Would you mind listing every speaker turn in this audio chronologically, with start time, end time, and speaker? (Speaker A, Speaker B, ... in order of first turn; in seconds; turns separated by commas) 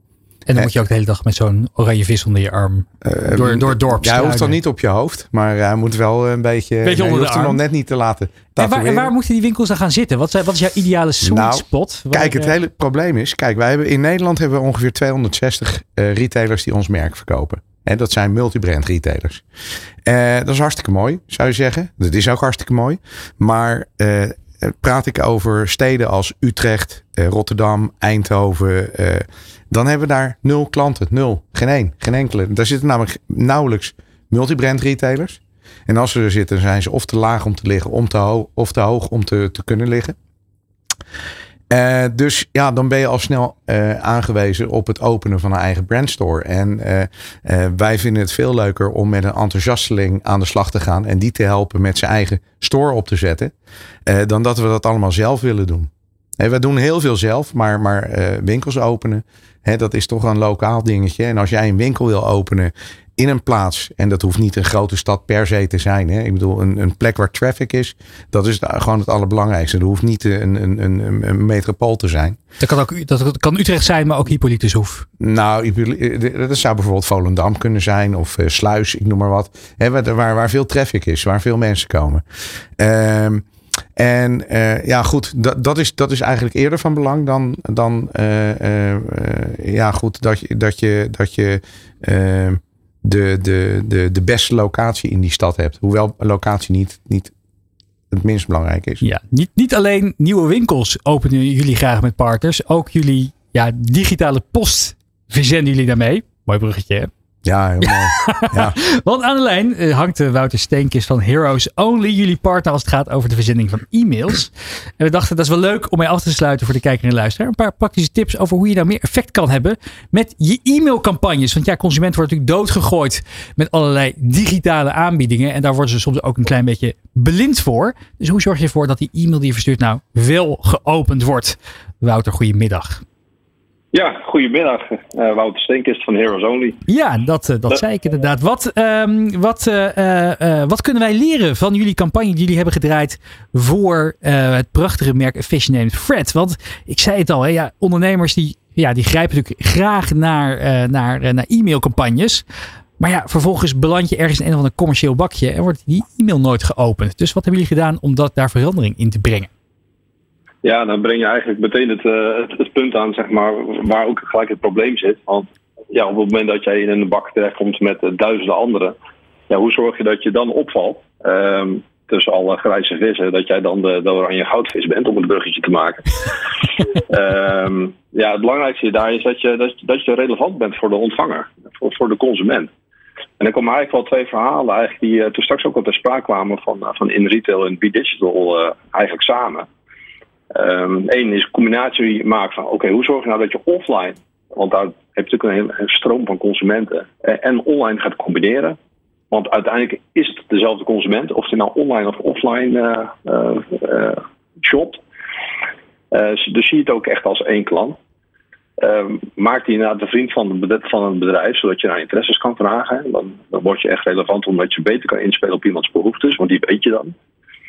Speaker A: 0.5-4.6, Speaker B: 3.0-9.1, Speaker A: 6.8-7.6, Speaker A: 8.6-12.6, Speaker B: 11.2-19.4, Speaker B: 20.1-40.2, Speaker B: 41.7-53.5, Speaker B: 54.1-72.4, Speaker A: 72.6-75.1, Speaker B: 75.2-82.2, Speaker B: 82.8-83.5, Speaker B: 84.0-97.3, Speaker B: 98.1-99.0, Speaker A: 99.0-107.1, Speaker B: 107.4-108.8, Speaker A: 108.2-133.0, Speaker C: 133.9-136.8, Speaker A: 136.9-152.4, Speaker A: 153.0-159.5, Speaker C: 160.6-169.0, Speaker C: 169.5-176.1, Speaker C: 177.1-182.7, Speaker C: 183.4-189.7, Speaker C: 190.5-198.8, Speaker C: 199.3-205.0, Speaker C: 206.1-208.0, Speaker C: 208.8-217.2